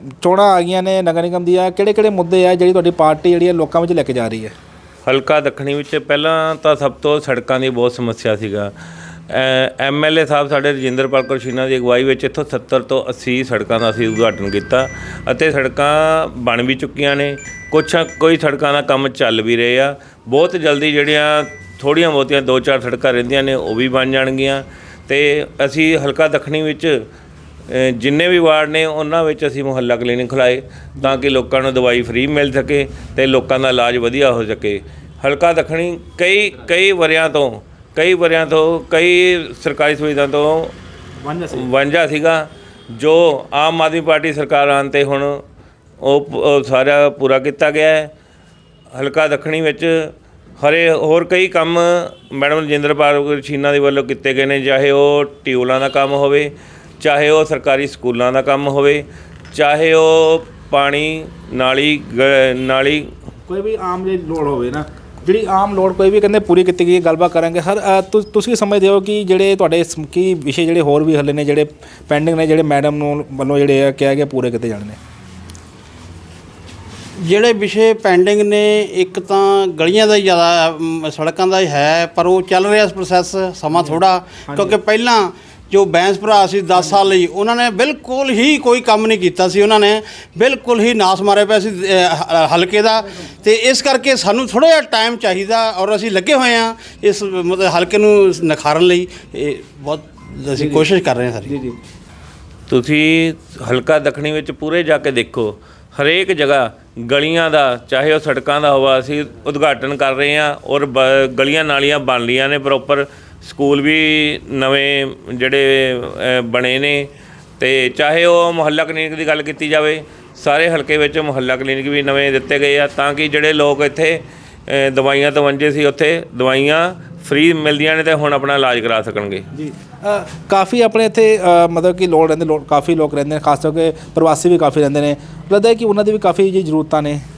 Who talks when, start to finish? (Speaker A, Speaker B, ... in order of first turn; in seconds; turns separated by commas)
Speaker A: 0.2-4.5, Speaker B: 5.0-8.7, Speaker B: 9.3-27.1, Speaker B: 27.7-40.7, Speaker A: 41.2-41.7, Speaker B: 41.5-45.4, Speaker B: 46.0-48.1, Speaker B: 48.9-63.0, Speaker A: 63.5-75.0, Speaker C: 77.2-101.5, Speaker A: 84.5-84.8, Speaker A: 100.5-100.9, Speaker A: 101.4-101.8, Speaker B: 102.7-129.4, Speaker A: 129.5-137.2